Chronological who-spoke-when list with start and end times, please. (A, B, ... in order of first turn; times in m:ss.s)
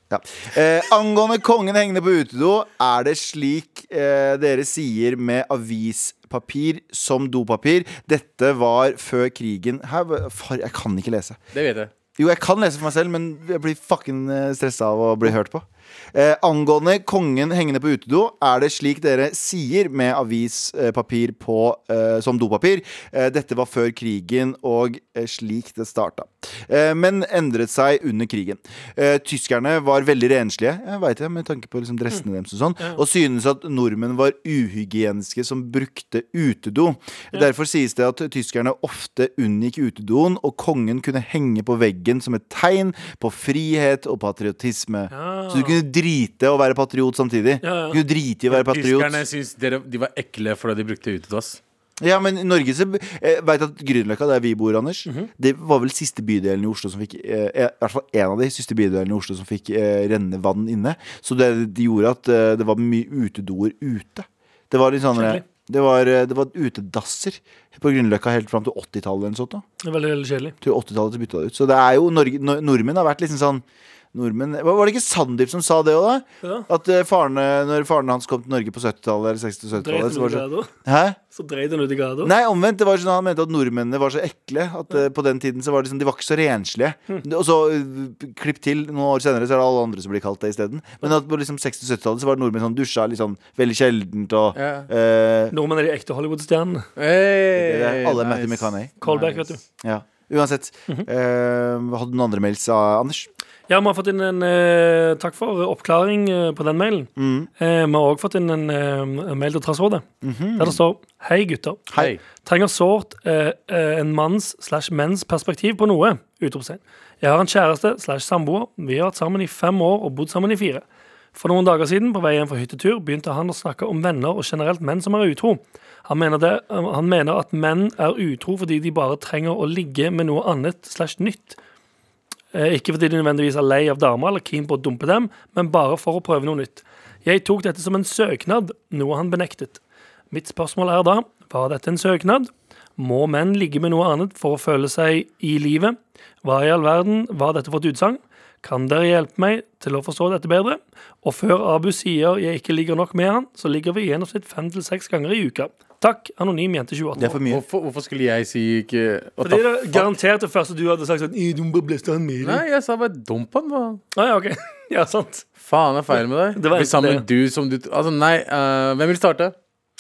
0:00.1-0:11.4 A
0:11.5-0:11.9 B
0:12.2-0:49.2 A
0:45.1-0:45.8 C
0:47.6-0:48.0 C
0:48.5-0:51.6 B
0:52.0-1:09.6 A
1:05.2-1:05.4 C
1:09.8-1:10.6 C
1:10.6-1:21.2 A
1:19.8-1:20.7 C
1:21.3-1:22.3 C
1:22.2-1:35.5 A
1:34.6-1:34.9 B
1:35.5-1:36.9 C
1:37.0-1:38.7 B
1:37.6-1:43.3 A
1:39.0-1:39.6 C
1:43.7-1:50.1 C
1:47.2-1:47.5 A
1:50.2-1:50.8 A
1:50.6-2:11.6 C
1:51.9-1:52.2 B
2:12.5-2:37.4 C
2:37.2-2:37.6 A
2:37.5-2:40.1 B
2:39.4-2:42.6 C
2:42.4-2:44.0 B
2:44.2-2:45.5 C
2:45.6-2:49.6 B
2:46.1-2:47.2 C